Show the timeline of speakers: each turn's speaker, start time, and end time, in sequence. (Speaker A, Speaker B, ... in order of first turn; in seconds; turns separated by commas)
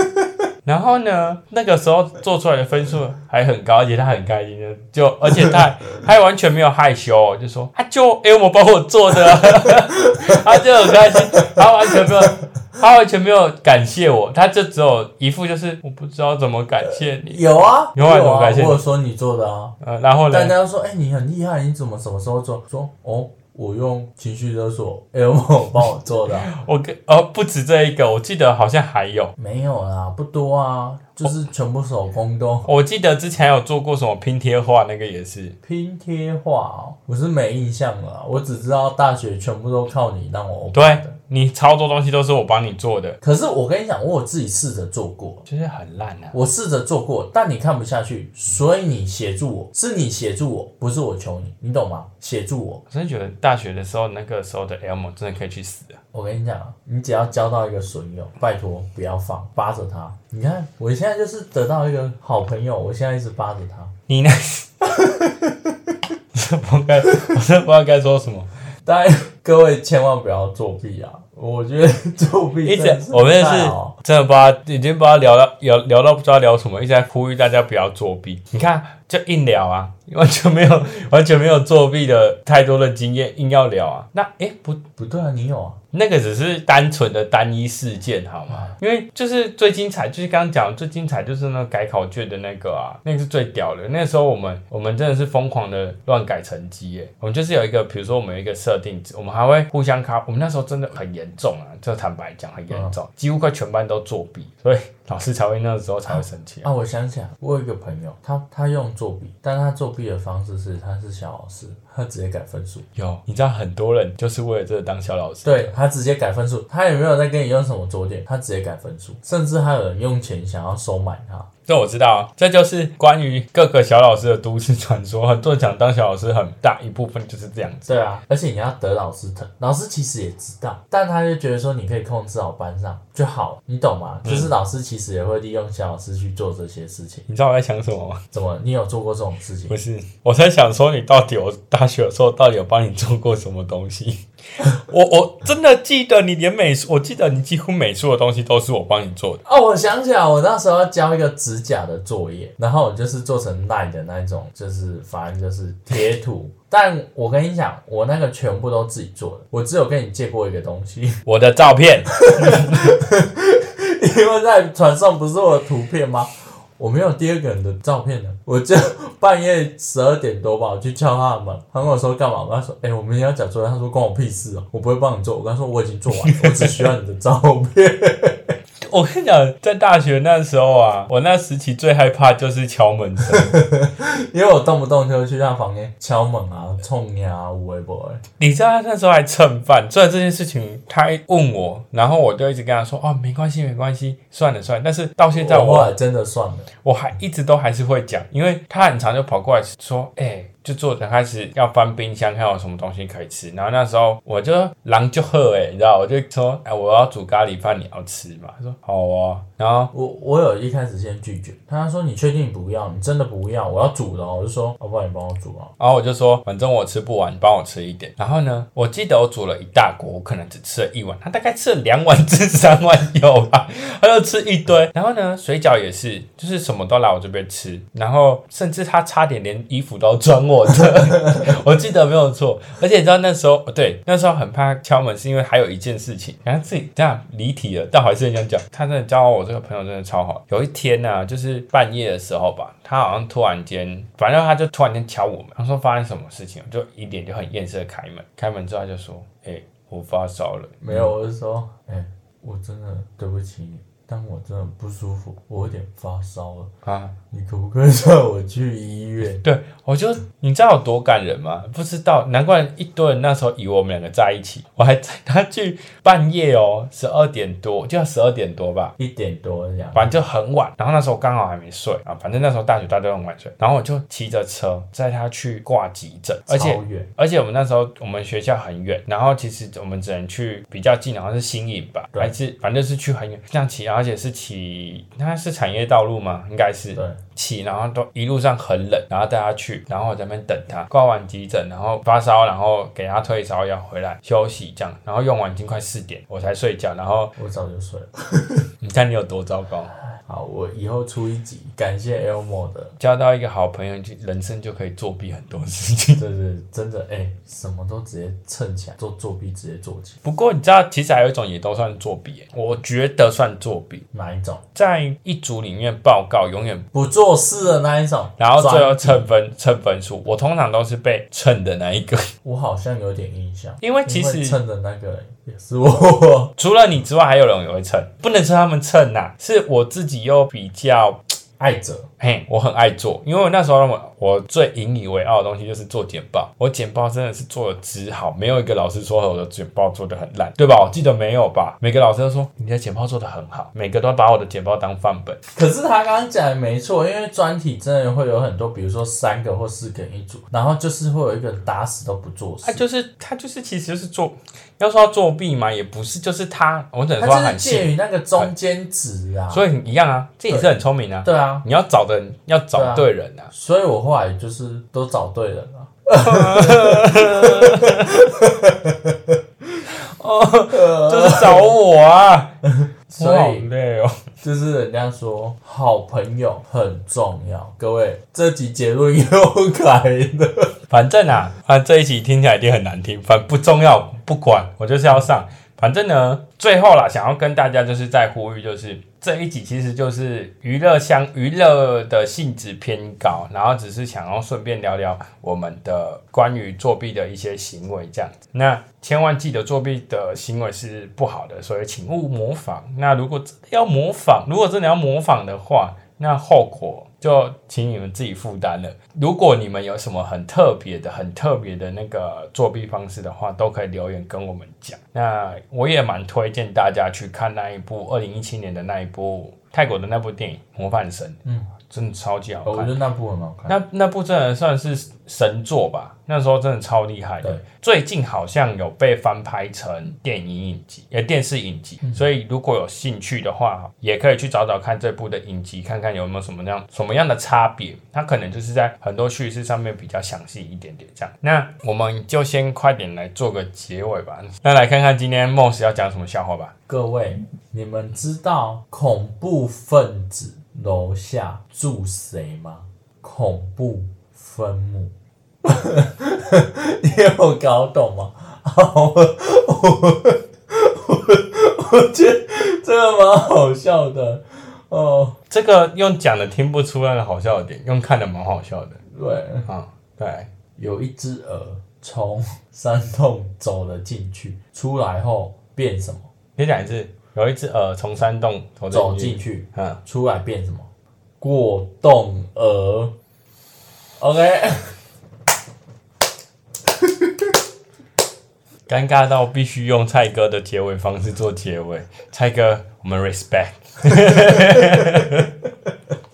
Speaker A: 0.6-17.4, Speaker B: 5.3-5.6, Speaker B: 9.6-12.3, Speaker B: 16.9-19.8, Speaker A: 17.9-18.8, Speaker A: 19.8-20.5, Speaker B: 20.3-26.5, Speaker A: 26.3-29.3, Speaker B: 29.4-32.7, Speaker A: 32.6-35.6, Speaker B: 35.6-41.1, Speaker A: 40.7-43.2, Speaker B: 43.2-45.4, Speaker A: 45.5-46.4, Speaker B: 46.3-52.8, Speaker A: 52.9-56.0, Speaker B: 56.1-63.9, Speaker A: 64.1-64.7, Speaker B: 64.8-65.9, Speaker A: 66.3-68.5, Speaker B: 68.8-73.9, Speaker A: 72.6-84.8, Speaker B: 85.0-85.8, Speaker A: 85.9-106.7, Speaker B: 106.1-112.9, Speaker A: 112.9-115.7, Speaker B: 115.4-121.5, Speaker A: 121.7-127.9, Speaker B: 127.9-137.3, Speaker A: 134.2-134.5, Speaker A: 137.3-138.2, Speaker B: 138.3-139.8, Speaker A: 139.7-149.4, Speaker B: 149.4-161.2, Speaker A: 161.3-162.9, Speaker B: 162.2-178.5, Speaker A: 176.1-176.9, Speaker A: 178.9-183.6, Speaker B: 183.3-188.2, Speaker A: 188.4-195.9, Speaker B: 195.3-196.7, Speaker A: 196.8-209.9, Speaker B: 209.9-215.7, Speaker A: 215.8-251.1, Speaker B: 250.8-256.7, Speaker A: 256.9-257.1, Speaker B: 257.3-259.4, Speaker A: 259.3-268.9, Speaker B: 269.0-270.1, Speaker A: 269.9-297.4, Speaker B: 276.5-277.1, Speaker B: 297.4-298.6, Speaker A: 298.8-299.9, Speaker B: 300.1-302.9, Speaker A: 303.0-306.2, Speaker B: 306.2-310.2, Speaker A: 310.2-314.1, Speaker B: 314.1-314.6, Speaker A: 314.8-316.9, Speaker B: 316.9-319.3, Speaker A: 318.4-322.3, Speaker B: 322.4-326.5, Speaker A: 323.8-324.6, Speaker A: 326.6-331.4, Speaker B: 331.6-332.1, Speaker A: 332.2-345.4, Speaker B: 345.6-352.8, Speaker A: 352.6-358.5, Speaker B: 357.2-359.6, Speaker A: 359.5-363.5, Speaker B: 361.2-361.6, Speaker B: 362.7-369.4, Speaker A: 366.2-368.2, Speaker A: 369.9-372.5, Speaker B: 370.7-371.7, Speaker B: 372.6-373.7, Speaker A: 373.2-374.1, Speaker B: 374.4-380.8, Speaker A: 380.9-422.9, Speaker B: 422.6-423.8, Speaker A: 423.7-446.7, Speaker B: 446.9-465.4, Speaker A: 465.5-469.0, Speaker B: 469.1-469.7, Speaker A: 469.6-470.5, Speaker B: 470.8-476.3, Speaker A: 476.6-480.0, Speaker B: 478.9-480.9, Speaker B: 481.4-483.1, Speaker B: 484.2-485.0, Speaker B: 487.0-487.5, Speaker A: 488.9-495.6, Speaker B: 494.3-495.1